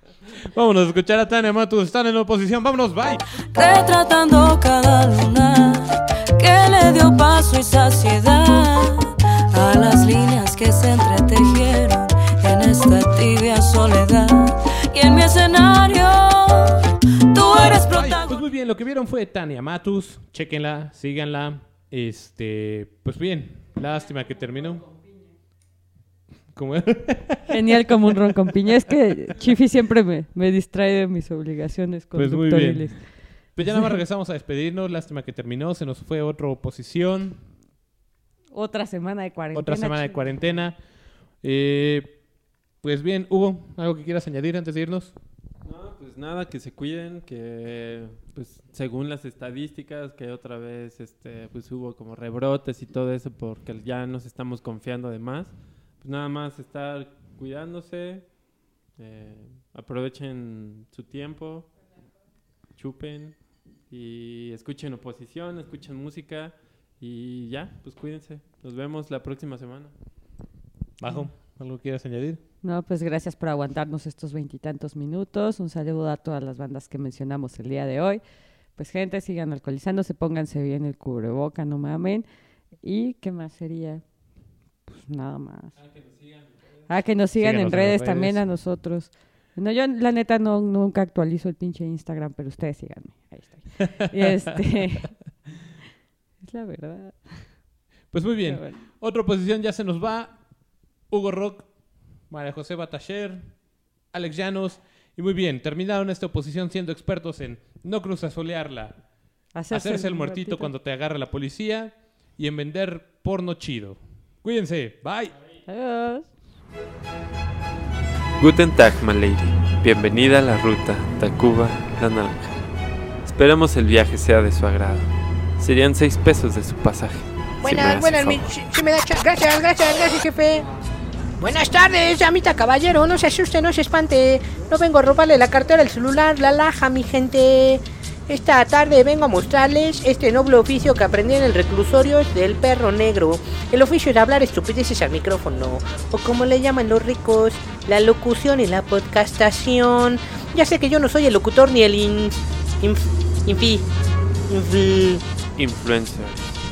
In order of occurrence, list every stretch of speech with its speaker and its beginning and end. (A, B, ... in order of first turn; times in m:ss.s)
0:00.4-0:03.2 A
0:03.6-0:16.8 B
0:17.3-0:18.4 B
0:17.5-0:24.9 A
0:26.5-0:28.1 A
0:27.5-0:33.1 C
0:32.2-0:37.5 A
0:38.5-0:40.4 C
0:39.5-0:40.8 A
0:41.4-0:42.2 A
0:42.8-0:45.1 A
0:45.6-0:58.3 D
0:59.0-1:01.7 D
1:02.8-1:09.9 D
1:11.0-1:12.4 A
1:12.6-1:18.2 C
1:18.8-1:22.3 C
1:22.8-1:24.0 C
1:24.9-1:25.8 C
1:25.8-1:26.9 D
1:26.9-1:35.2 C
1:27.4-1:28.4 A
1:34.0-1:34.3 A
1:36.4-1:37.5 C
1:38.1-1:40.4 A
1:38.5-1:38.8 C
1:41.1-1:41.7 A
1:42.3-1:43.6 A
1:44.1-1:49.0 A
1:49.5-1:50.7 C
1:49.7-1:55.4 A
1:55.7-1:56.3 C
1:58.4-2:02.5 D
2:03.2-2:08.5 D
2:07.6-2:10.6 E
2:11.4-2:33.8 E
2:34.5-2:35.2 E
2:35.6-2:36.6 D